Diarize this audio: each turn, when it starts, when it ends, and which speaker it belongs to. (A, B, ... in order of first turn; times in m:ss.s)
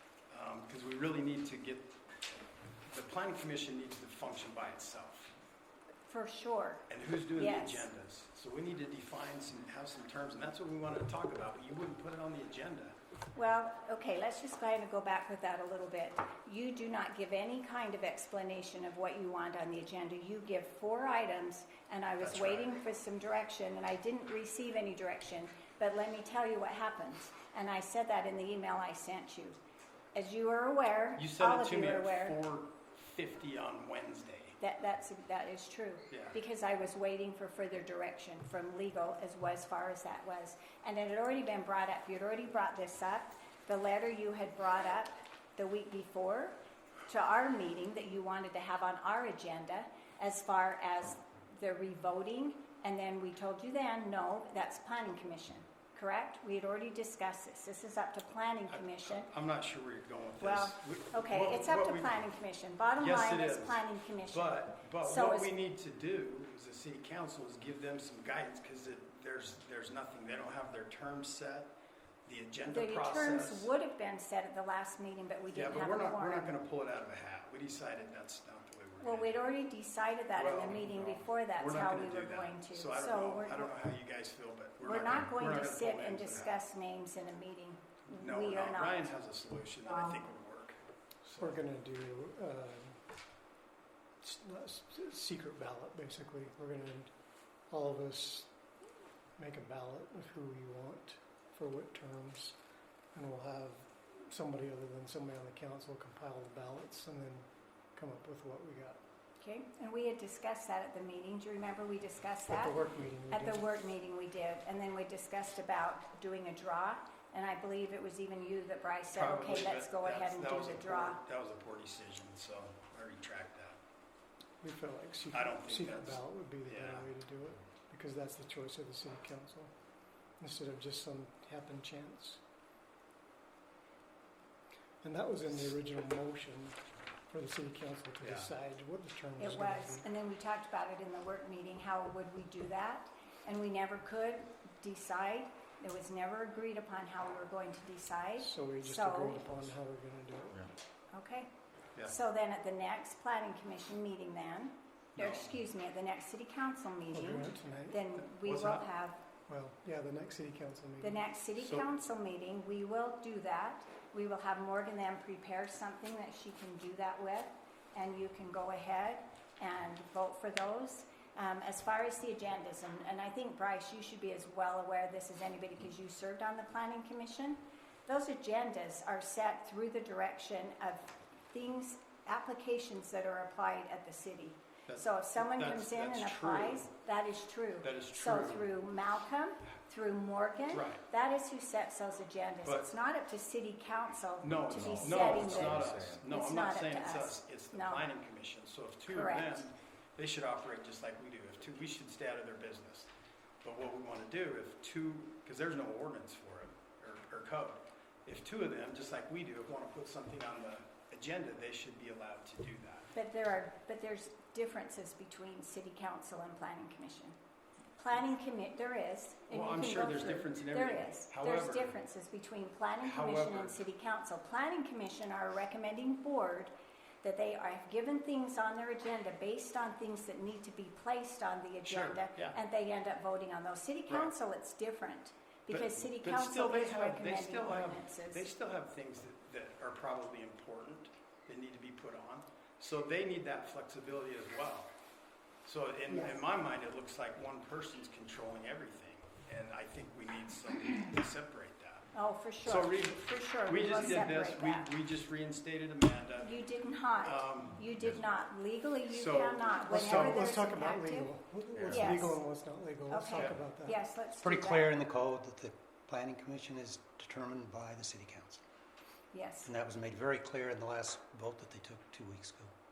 0:00.3-0:02.0 A
0:02.8-0:05.3 A
0:06.1-0:07.9 B
0:06.9-0:13.0 A
0:13.4-0:29.6 B
0:22.2-0:22.7 A
0:30.2-0:32.4 B
0:31.2-0:34.6 A
0:34.6-0:46.6 B
0:36.1-0:36.4 A
0:47.1-0:59.3 B
0:58.7-1:02.2 A
1:00.4-1:05.5 B
1:03.0-1:13.7 A
1:12.7-1:16.6 B
1:15.5-1:19.4 A
1:19.0-1:23.8 B
1:20.4-1:26.6 A
1:24.8-1:29.1 B
1:28.1-1:31.6 A
1:31.4-1:33.0 C
1:34.2-1:37.1 C
1:37.7-1:38.5 C
1:39.4-1:42.6 C
1:43.1-1:49.0 C
1:49.4-1:52.8 B
1:52.5-1:53.6 C
1:53.3-2:01.2 B
1:59.1-2:03.8 A
2:04.6-2:09.7 C
2:05.3-2:07.1 A
2:10.4-2:12.4 C
2:15.0-2:16.8 C
2:17.3-2:20.1 C
2:18.2-2:18.5 A
2:19.4-2:29.5 B
2:28.4-2:30.7 C
2:31.1-2:31.5 B
2:32.0-2:39.2 B
2:35.2-2:35.5 A
2:37.1-2:38.0 C
2:38.2-2:38.9 A
2:39.5-2:41.2 C
2:41.0-3:18.1 B
2:41.6-2:41.8 A
3:04.9-3:06.9 A
3:07.8-3:08.7 A
3:10.7-3:11.0 A
3:12.6-3:12.9 A
3:14.4-3:23.1 A
3:19.1-3:19.6 B
3:23.6-3:33.1 A
3:33.1-3:37.4 B
3:38.0-3:46.7 B
3:39.5-3:42.0 A
3:43.0-3:43.8 A
3:47.2-3:58.5 B
3:51.8-3:52.6 A
3:55.7-4:04.9 A
4:05.6-4:12.1 A
4:12.1-4:14.9 B
4:12.6-4:16.6 A
4:16.4-4:21.3 B
4:17.2-4:18.0 A
4:19.1-4:20.4 A
4:19.9-4:24.0 C
4:21.9-4:22.4 B
4:23.1-4:25.0 B
4:23.3-4:23.6 A
4:24.4-4:28.6 D
4:29.3-4:29.7 B
4:29.6-4:32.7 D